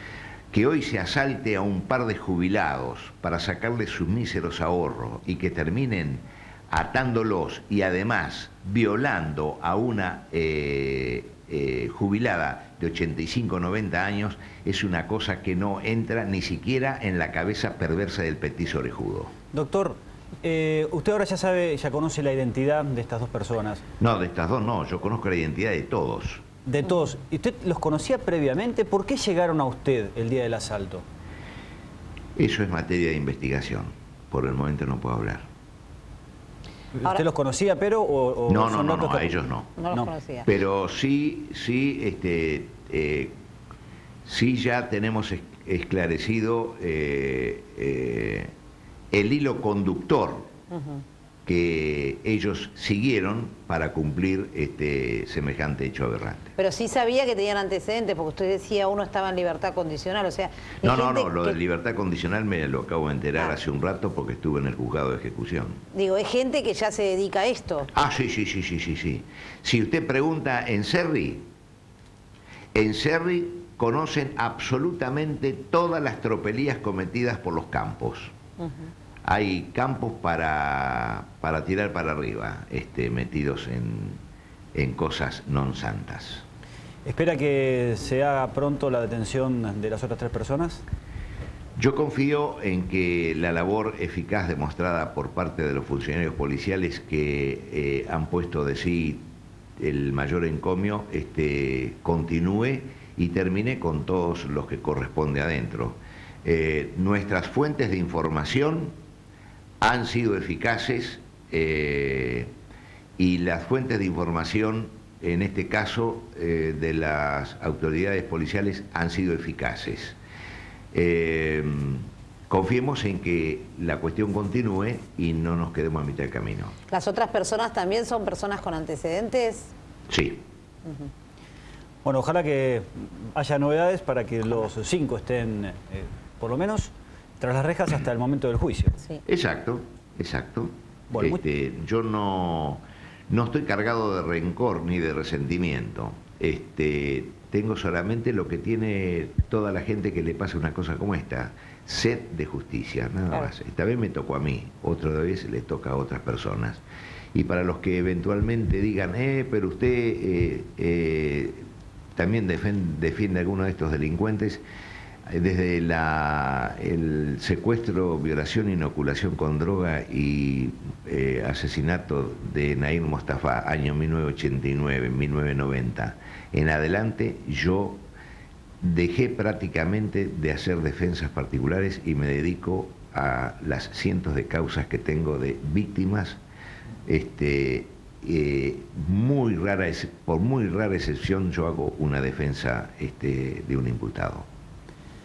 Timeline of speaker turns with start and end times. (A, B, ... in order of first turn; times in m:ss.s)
0:00.5-0:19.3 A
0:19.5-0:23.8 B
0:24.0-0:26.4 A
0:26.6-0:31.0 B
0:32.4-0:35.4 A
0:36.9-0:39.3 B
0:38.5-0:39.7 A
0:39.8-0:40.5 C
0:40.4-0:43.3 A
0:44.2-0:48.5 A
0:49.1-0:50.5 A
0:50.7-0:51.0 C
0:51.4-0:56.5 A
0:56.6-1:01.6 C
1:00.8-1:05.8 A
1:05.9-1:07.9 C
1:07.9-1:11.4 A
1:12.7-1:18.3 A
1:18.6-1:18.8 C
1:19.2-1:24.2 A
1:24.7-1:26.4 A
1:27.0-1:30.8 B
1:31.8-1:39.2 A
1:39.8-1:48.9 A
1:49.8-1:52.5 A
1:53.2-2:00.2 A
2:00.9-2:06.7 A
2:06.9-2:09.7 C
2:10.1-2:10.4 A
2:12.0-2:19.0 B
2:19.2-2:36.8 A
2:21.1-2:21.4 B
2:37.3-2:41.6 A
2:42.2-2:44.6 A
2:45.3-2:58.0 A
2:58.8-3:06.4 A
3:07.0-3:14.4 A